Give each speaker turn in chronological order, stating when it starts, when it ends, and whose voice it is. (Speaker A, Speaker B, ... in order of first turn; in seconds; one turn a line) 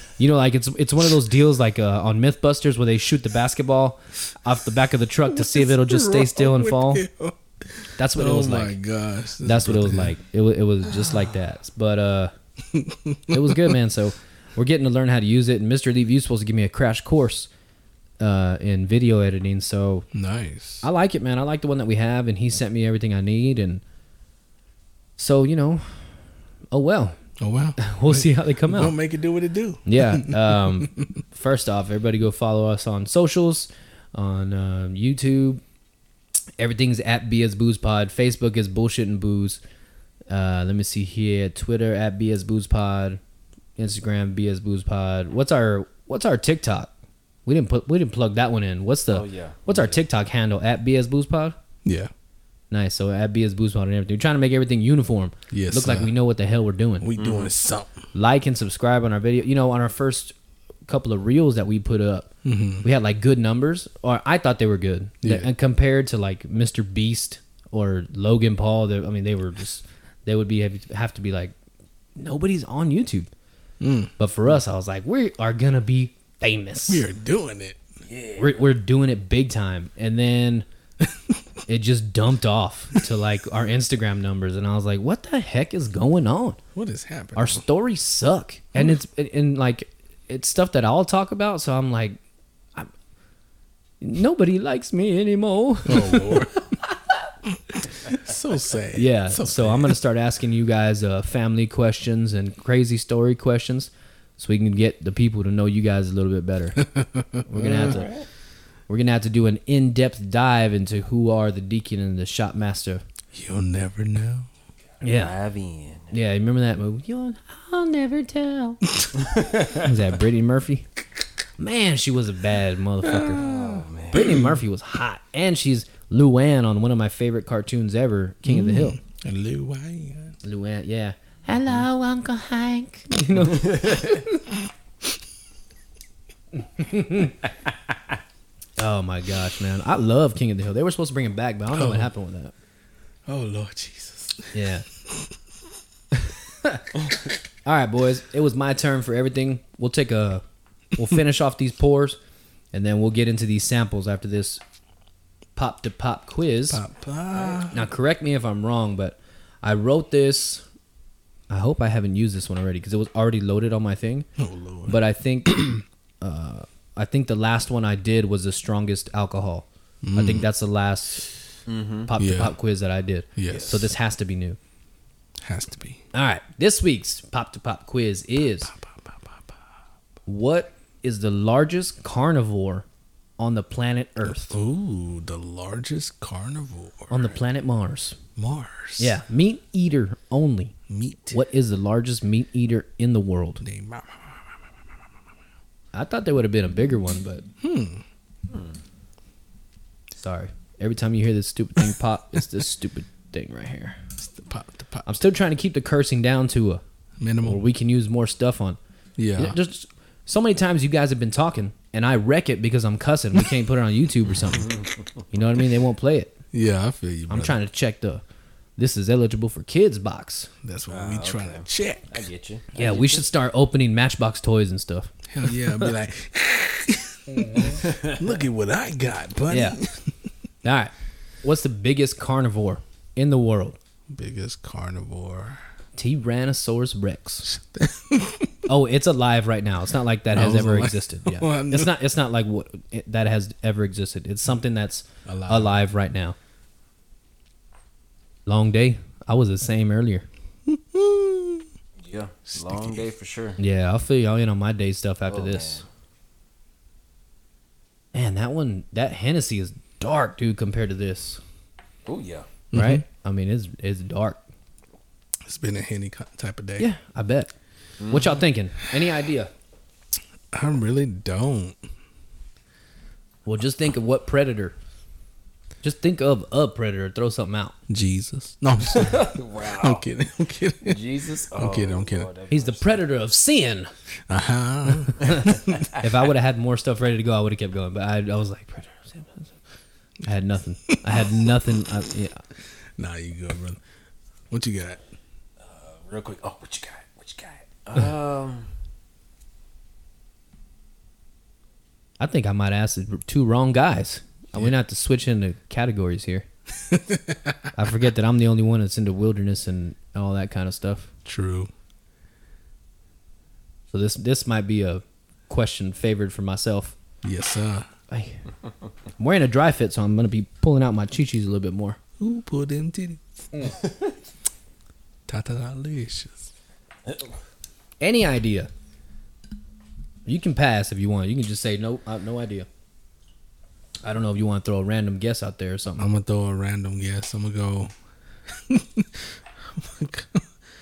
Speaker A: 0.2-7.0
Speaker B: 5.2-10.2
Speaker A: 8.0-8.8
Speaker A: 9.4-12.3
Speaker B: 11.0-11.3
Speaker B: 12.7-13.8
Speaker A: 13.3-17.5
Speaker A: 18.2-20.1
Speaker B: 20.1-20.9
Speaker A: 20.8-23.8
Speaker A: 25.2-27.2
Speaker B: 27.4-31.2
Speaker A: 27.8-28.9
Speaker A: 29.9-35.6
Speaker A: 36.6-39.6
Speaker A: 40.3-43.2
Speaker A: 43.8-46.9
Speaker A: 47.5-51.6
Speaker C: 49.1-50.0
Speaker B: 51.8-52.1
Speaker A: 52.7-57.1
Speaker B: 55.5-56.1
Speaker B: 57.0-58.0
Speaker C: 57.2-57.5
Speaker A: 58.1-60.3
Speaker A: 60.9-71.5
Speaker B: 62.4-62.9
Speaker B: 65.2-65.5
Speaker A: 72.2-73.3
Speaker B: 73.8-74.1
Speaker A: 74.2-77.0
Speaker B: 76.9-77.8
Speaker C: 78.0-78.6
Speaker A: 78.4-80.7
Speaker B: 81.0-81.4
Speaker A: 81.7-86.6
Speaker B: 86.7-87.6
Speaker A: 87.3-92.2
Speaker B: 88.7-89.0
Speaker A: 94.0-96.9
Speaker B: 95.8-96.8
Speaker B: 97.5-100.0
Speaker A: 98.9-106.8
Speaker B: 106.8-108.0
Speaker A: 107.5-108.1
Speaker C: 107.6-108.2
Speaker A: 108.9-113.0
Speaker B: 113.3-114.5
Speaker A: 115.0-115.3
Speaker C: 115.0-116.2
Speaker A: 116.1-118.8
Speaker C: 119.2-119.7
Speaker A: 119.8-120.8
Speaker A: 121.6-123.4
Speaker B: 123.0-124.6
Speaker C: 123.3-124.3
Speaker A: 124.1-129.0
Speaker B: 128.4-130.4
Speaker A: 130.4-134.3
Speaker A: 136.8-137.3
Speaker A: 138.8-142.5
Speaker B: 141.7-142.1
Speaker B: 143.2-145.3
Speaker A: 144.5-144.8
Speaker A: 147.6-150.4
Speaker A: 150.9-152.2
Speaker A: 152.7-154.6
Speaker A: 155.6-156.8
Speaker B: 156.7-157.8
Speaker C: 157.3-157.7
Speaker A: 157.7-160.7
Speaker A: 161.5-164.3
Speaker B: 164.4-165.7
Speaker A: 164.9-171.3
Speaker B: 170.0-170.5
Speaker C: 171.7-172.1
Speaker A: 172.1-174.6
Speaker B: 172.2-172.6
Speaker B: 173.3-173.9
Speaker C: 173.5-173.8
Speaker B: 175.4-176.0
Speaker A: 176.1-178.7
Speaker B: 178.6-179.6
Speaker A: 180.2-182.8
Speaker A: 183.4-184.6
Speaker B: 184.2-187.3
Speaker A: 187.1-188.2
Speaker B: 188.3-189.2
Speaker A: 189.0-190.7
Speaker B: 190.9-191.4
Speaker A: 191.3-193.6
Speaker B: 193.6-194.4
Speaker A: 195.9-197.4
Speaker B: 197.6-198.0
Speaker C: 198.5-198.8
Speaker A: 200.2-204.0
Speaker B: 204.2-205.1
Speaker A: 205.0-206.8
Speaker B: 207.2-207.6
Speaker A: 207.4-208.8
Speaker B: 209.2-209.6
Speaker A: 209.3-214.7
Speaker C: 214.6-215.0
Speaker A: 215.3-216.3
Speaker B: 216.5-217.6
Speaker A: 217.3-218.2
Speaker A: 218.8-220.5
Speaker B: 220.6-222.3
Speaker C: 220.9-223.2
Speaker A: 222.7-225.9
Speaker B: 225.3-230.3
Speaker A: 227.3-227.8
Speaker C: 227.8-228.3
Speaker A: 229.5-229.8
Speaker A: 230.6-233.8
Speaker B: 234.1-235.6
Speaker A: 235.9-237.5
Speaker B: 237.5-238.7
Speaker A: 238.7-246.3
Speaker B: 240.3-241.9
Speaker B: 245.2-245.7
Speaker A: 248.4-250.3
Speaker B: 250.7-251.7
Speaker C: 252.0-253.6
Speaker B: 252.5-253.1
Speaker A: 253.6-255.8
Speaker C: 255.3-255.8
Speaker A: 258.1-261.4
Speaker C: 262.1-262.5
Speaker B: 262.7-263.0
Speaker A: 262.7-264.4
Speaker B: 265.4-266.9
Speaker A: 266.8-267.5
Speaker C: 268.0-268.4
Speaker A: 268.1-269.5
Speaker B: 270.5-271.9
Speaker A: 273.4-274.7
Speaker A: 275.8-277.8
Speaker B: 277.9-282.3
Speaker C: 278.9-280.0
Speaker C: 280.8-283.0
Speaker A: 282.5-283.9
Speaker B: 284.3-285.8
Speaker A: 285.3-289.5
Speaker A: 290.2-292.4
Speaker B: 290.9-291.4
Speaker B: 292.8-293.8
Speaker B: 294.5-295.0
Speaker C: 295.6-298.7
Speaker A: 302.2-306.4
Speaker B: 306.8-307.7
Speaker A: 307.8-311.1
Speaker B: 311.2-311.7
Speaker A: 313.9-316.9
Speaker B: 317.2-317.9
Speaker A: 318.1-318.5
Speaker A: 319.2-322.0
Speaker B: 322.2-323.2
Speaker B: 325.3-326.5
Speaker A: 328.0-328.7
Speaker A: 330.2-332.7
Speaker A: 334.0-336.1
Speaker B: 336.0-337.9
Speaker B: 338.5-340.5